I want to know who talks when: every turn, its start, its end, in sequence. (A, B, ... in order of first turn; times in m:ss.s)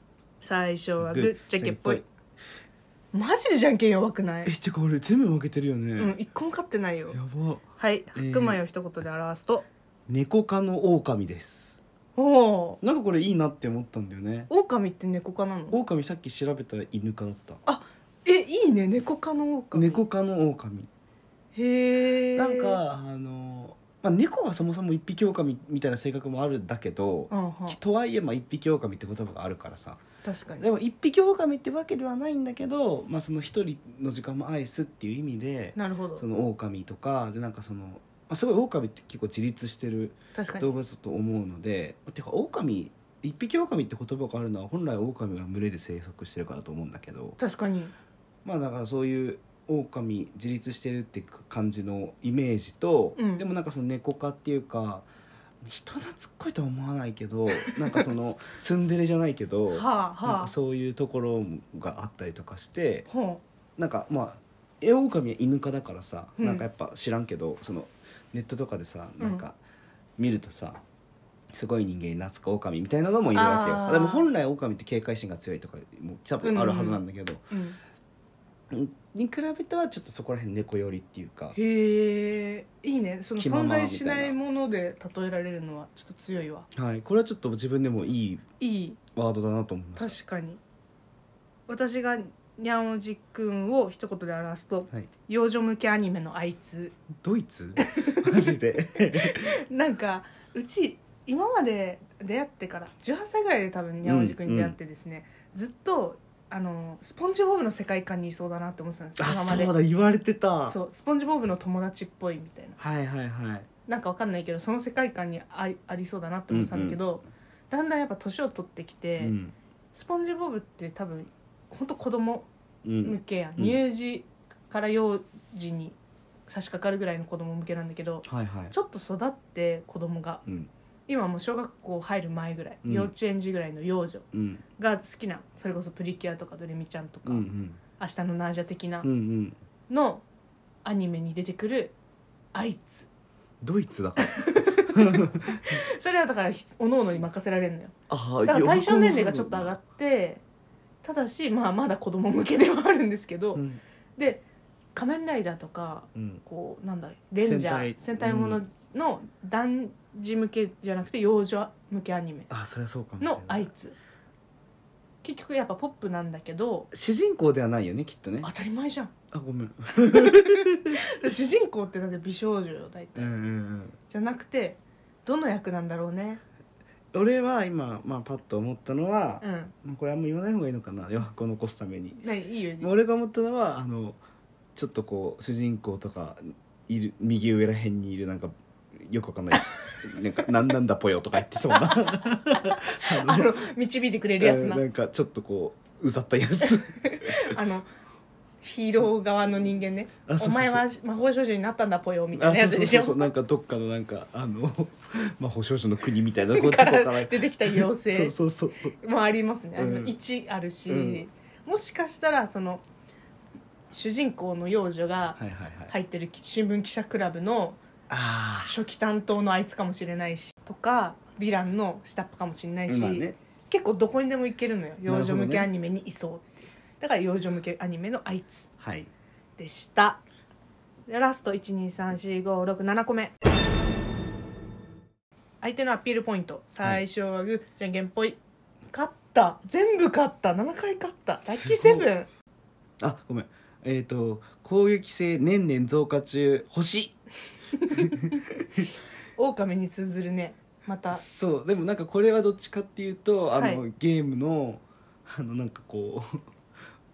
0:00.4-0:02.0 A
0:01.0-0:02.0 B
0:03.1-0:04.5 A
0:04.4-0:06.2 B
0:06.0-0:07.2 A
0:07.1-0:08.6 B
0:07.8-0:09.7 A
0:10.1-0:11.8 B
0:12.2-0:12.8 A
0:12.8-0:14.5 B
0:14.5-0:15.8 A
0:15.7-0:17.6 B
0:17.6-0:20.0 A
0:19.7-0:20.9 B
0:21.5-0:22.8 A
0:22.4-0:30.0 B
0:27.3-0:27.8 A
0:30.2-0:30.7 A
0:30.6-0:47.4 B
0:35.8-0:36.2 A
0:40.3-0:40.7 A
0:47.4-0:47.9 A
0:48.4-0:55.1 B
0:53.2-0:53.4 A
0:55.6-1:03.1 B
0:57.6-0:58.0 A
0:59.7-1:00.5 A
1:03.1-1:03.4 A
1:03.8-1:09.6 B
1:06.4-1:06.6 A
1:10.2-1:10.8 B
1:11.5-1:17.4 B
1:13.3-1:14.3 A
1:16.4-1:17.8 A
1:18.7-1:21.6 B
1:21.5-1:26.7 A
1:23.4-1:24.4 B
1:26.7-1:28.4 B
1:28.6-1:29.0 A
1:29.1-1:30.2 B
1:30.0-1:30.6 A
1:31.7-1:37.0 A
1:37.2-1:39.6 B
1:37.8-1:38.6 A
1:39.1-1:49.7 A
1:44.0-1:44.8 B
1:49.2-1:50.8 B
1:50.6-1:52.8 A
1:52.8-1:53.7 B
1:53.9-1:59.3 A
1:56.5-1:57.0 B
1:59.2-1:59.5 B
1:59.9-2:02.5 A
2:02.8-2:03.8 B
2:03.0-2:06.0 A
2:06.5-2:10.4 A
2:08.2-2:08.7 B
2:10.4-2:10.7 B
2:11.1-2:14.2 A
2:12.8-2:13.1 B
2:14.3-2:14.6 B
2:14.8-2:17.4 A
2:17.2-2:17.8 B
2:18.0-2:19.1 A
2:19.0-2:19.6 B
2:19.9-2:20.2 A
2:20.8-2:21.9 A
2:22.5-2:23.1 A
2:23.6-2:25.8 B
2:24.2-2:27.9 A
2:28.1-2:29.8 B
2:28.4-2:30.4 A
2:31.0-2:33.6 A
2:33.5-2:33.8 B
2:34.2-2:34.4 A
2:34.9-2:42.5 A
2:36.1-2:36.4 B
2:37.4-2:38.6 B
2:42.5-2:43.7 B
2:43.2-2:44.0 A
2:45.2-2:46.9 A
2:46.9-2:48.5 B
2:48.4-2:49.1 A
2:49.3-2:51.0 B
2:50.0-2:53.3 A
2:53.2-2:54.0 B
2:54.1-2:56.4 A
2:57.1-3:02.2 B
2:59.4-2:59.7 A
3:02.2-3:02.9 A
3:02.8-3:04.2 B
3:04.7-3:13.5 B
3:11.7-3:14.8 A
3:14.4-3:17.5 B
3:16.9-3:17.9 A
3:18.6-3:23.3 A
3:20.2-3:20.8 B
3:22.4-3:29.0 B
3:26.4-3:28.4 A
3:29.0-3:32.8 A
3:29.8-3:30.2 B
3:30.9-3:31.2 B
3:33.9-3:37.8 A
3:35.4-3:35.9 B
3:38.1-3:38.8 B
3:38.6-3:48.7 A
3:42.9-3:43.4 B
3:45.0-3:45.7 B
3:48.8-3:49.1 B
3:49.6-3:50.2 A
3:51.1-3:53.3 A
3:55.6-4:02.3 A
4:01.5-4:02.1 B
4:03.0-4:07.2 B
4:07.7-4:08.2 A
4:07.9-4:08.9 B
4:09.4-4:11.2 A
4:11.1-4:16.4 B
4:13.5-4:13.8 A